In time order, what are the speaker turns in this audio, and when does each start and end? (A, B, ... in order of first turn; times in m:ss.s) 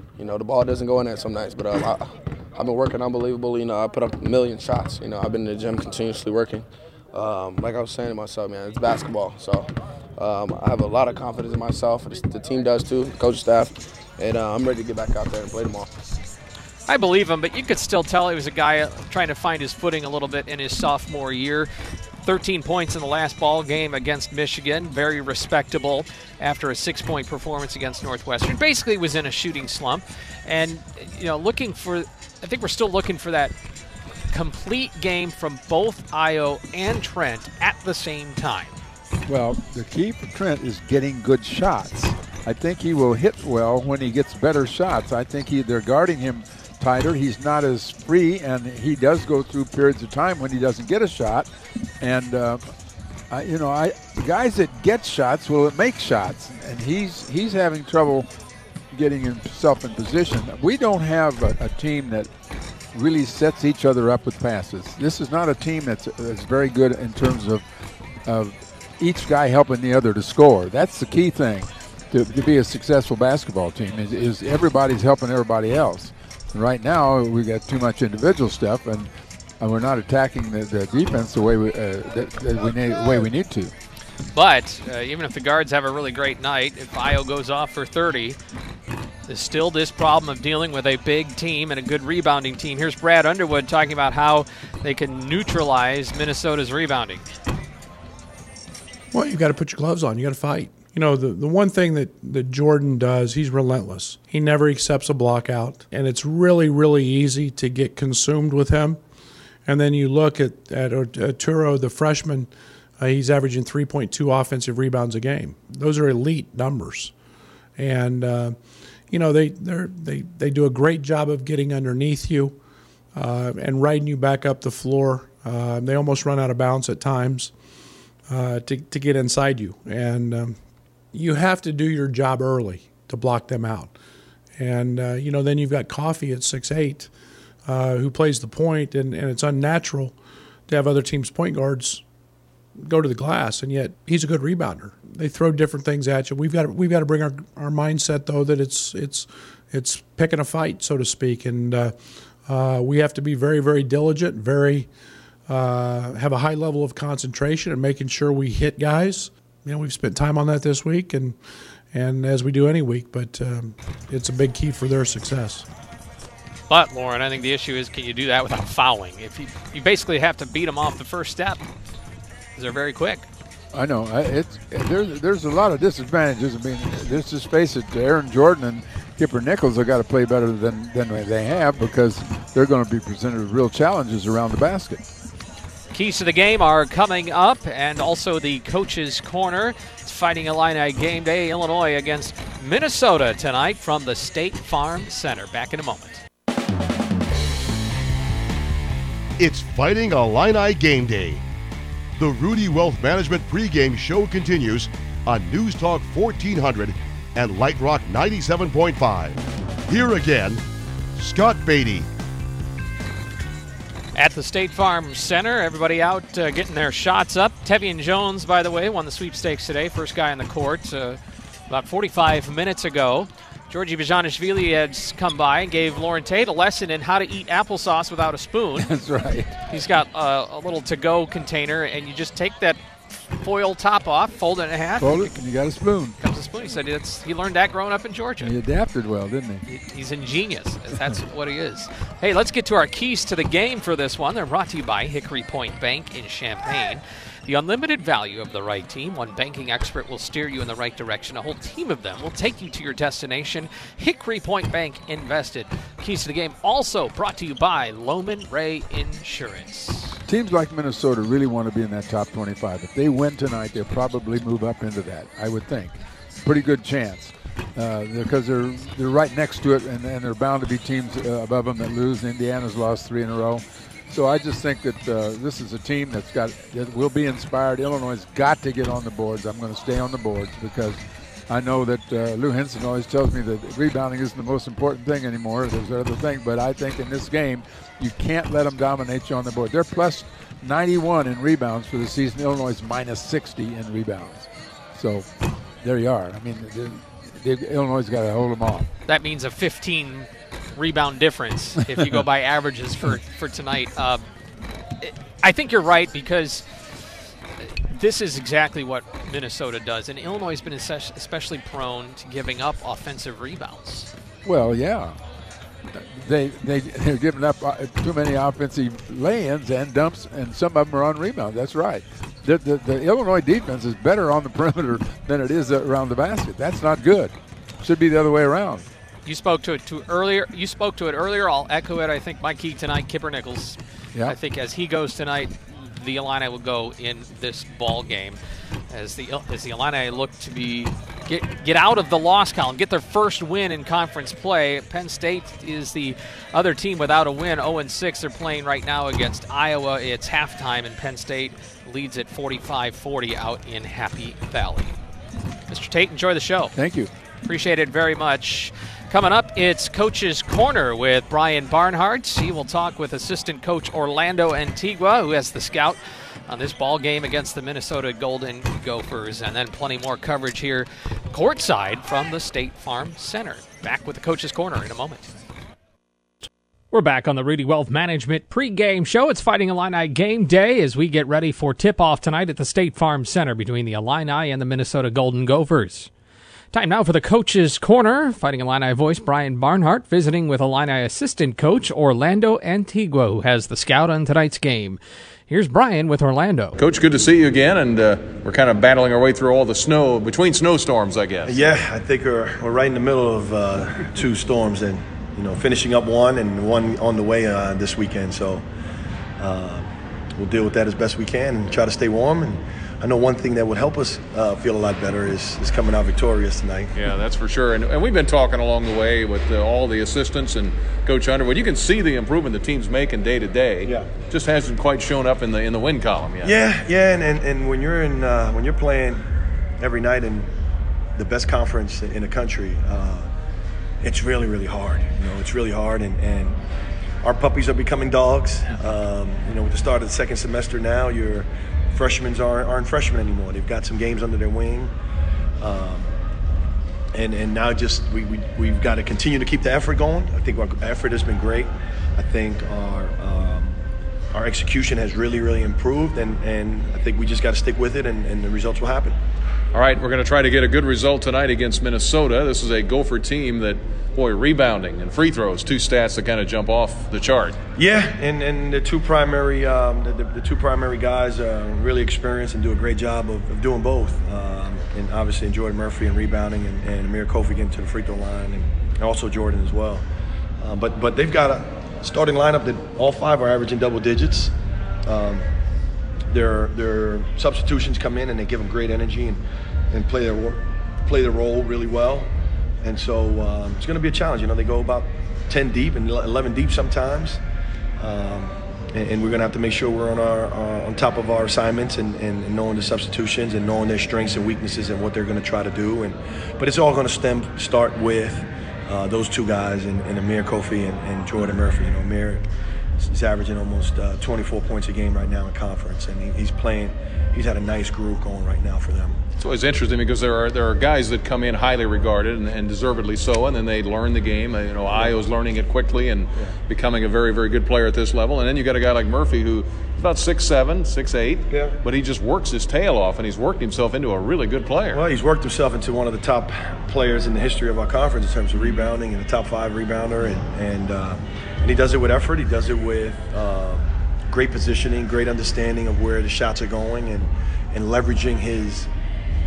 0:00.2-0:15.9 A
0:16.9-0:21.7 B
0:22.2-0:33.5 B
0:34.3-0:38.8 B
0:39.3-0:51.5 C
0:52.0-0:52.6 C
0:53.3-0:58.3 C
0:58.9-1:02.3 C
1:02.9-1:07.6 C
1:08.2-1:23.7 C
1:24.3-1:28.4 B
1:29.3-1:37.3 B
1:39.1-1:49.0 D
1:49.7-1:57.1 D
1:57.8-1:58.6 D
1:59.1-2:02.6 D
2:03.2-2:07.5 D
2:08.3-2:10.6 D
2:11.1-2:13.9 D
2:14.6-2:17.1 D
2:17.7-2:20.2 D
2:20.7-2:22.0 D
2:22.8-2:32.0 D
2:32.5-2:34.9 D
2:35.5-2:41.4 D
2:41.9-2:45.7 D
2:46.7-2:51.6 B
2:52.6-2:53.3 B
2:53.7-3:05.0 C
3:05.9-3:16.2 B
3:19.4-3:21.4 E
3:22.2-3:30.6 E
3:31.2-3:32.1 E
3:34.2-3:48.9 B
3:48.8-3:49.6 C
3:49.7-3:52.8 B
3:53.4-3:55.4 B
3:55.0-3:56.2 C
3:56.2-3:58.6 B
3:58.4-3:59.6 C
3:59.7-4:20.2 B
4:20.3-4:55.3 C
4:55.8-4:58.9 C
4:59.1-5:04.2 B
5:05.0-5:06.7 B
5:07.6-5:14.1 B
5:14.4-5:15.2 C
5:15.9-5:28.9 C
5:29.2-5:38.4 B
5:38.9-5:55.0 B
5:55.7-5:56.7 B
5:56.8-5:57.1 C
5:57.4-6:15.3 B
6:16.9-6:26.1 B
6:26.7-6:36.8 B
6:36.8-6:41.7 F
6:41.5-6:48.6 G
6:49.4-6:56.9 G
6:57.0-7:06.6 F
7:06.4-7:09.3 G
7:09.8-7:10.5 G
7:11.2-7:13.3 G
7:14.0-7:16.6 G
7:17.2-7:24.9 G
7:25.6-7:26.1 G
7:27.1-7:33.8 G
7:34.3-7:39.2 G
7:39.7-7:47.6 F
7:47.8-8:00.0 G
8:00.6-8:04.5 G
8:05.1-8:05.5 G
8:06.3-8:09.4 G
8:09.9-8:12.3 G
8:12.8-8:17.4 G
8:18.0-8:32.5 G
8:33.0-8:39.2 G
8:39.4-8:55.0 F
8:51.5-8:51.8 G
8:54.9-9:08.9 G